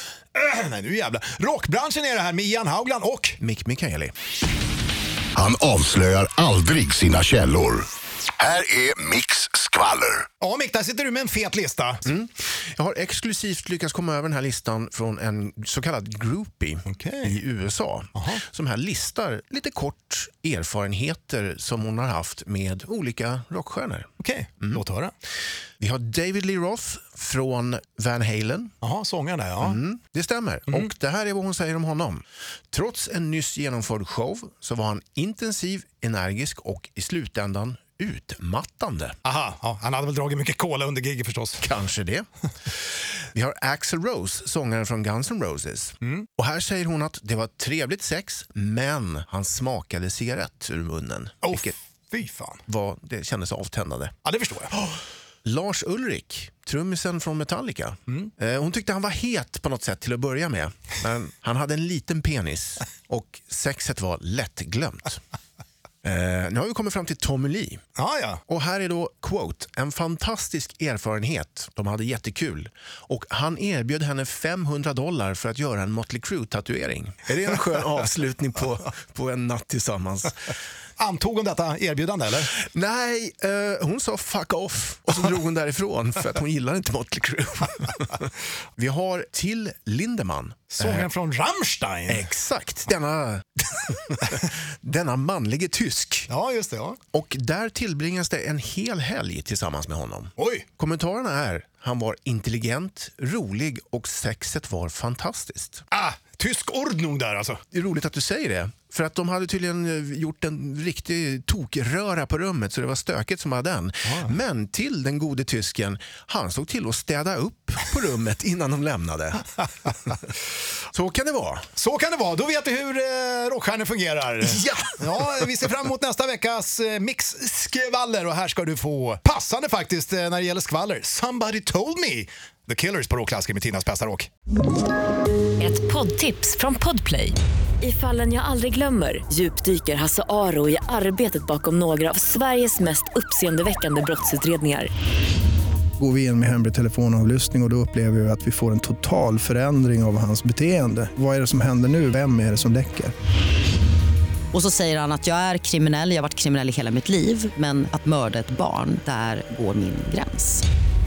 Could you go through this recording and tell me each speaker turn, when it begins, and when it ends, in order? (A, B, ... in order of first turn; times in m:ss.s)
0:00.3-0:03.4 A
0:03.4-0:04.1 B
0:05.4-0:10.2 C
0:10.4-0:12.0 A
0:12.0-0:24.1 B
0:16.9-0:17.3 A
0:24.2-0:25.1 A
0:25.8-0:28.7 B
0:28.8-0:29.8 A
0:29.6-0:39.2 B
0:39.2-0:41.6 A
0:41.6-0:42.3 B
0:43.3-0:51.7 B
0:51.4-0:52.6 A
0:52.7-0:54.1 B
0:54.2-0:54.8 A
0:55.4-1:05.2 B
1:06.0-1:07.8 B
1:08.0-1:08.4 A
1:08.5-1:20.5 B
1:21.0-1:22.5 A
1:22.5-1:31.1 B
1:30.7-1:32.3 A
1:32.1-1:36.3 B
1:36.3-1:37.0 A
1:37.1-1:45.8 B
1:40.4-1:40.6 A
1:45.9-1:47.6 A
1:47.7-1:59.5 B
2:00.9-2:01.6 B
2:01.8-2:14.3 A
2:04.6-2:04.9 B
2:15.6-2:24.9 D
2:26.0-2:33.1 E
2:34.5-2:40.6 F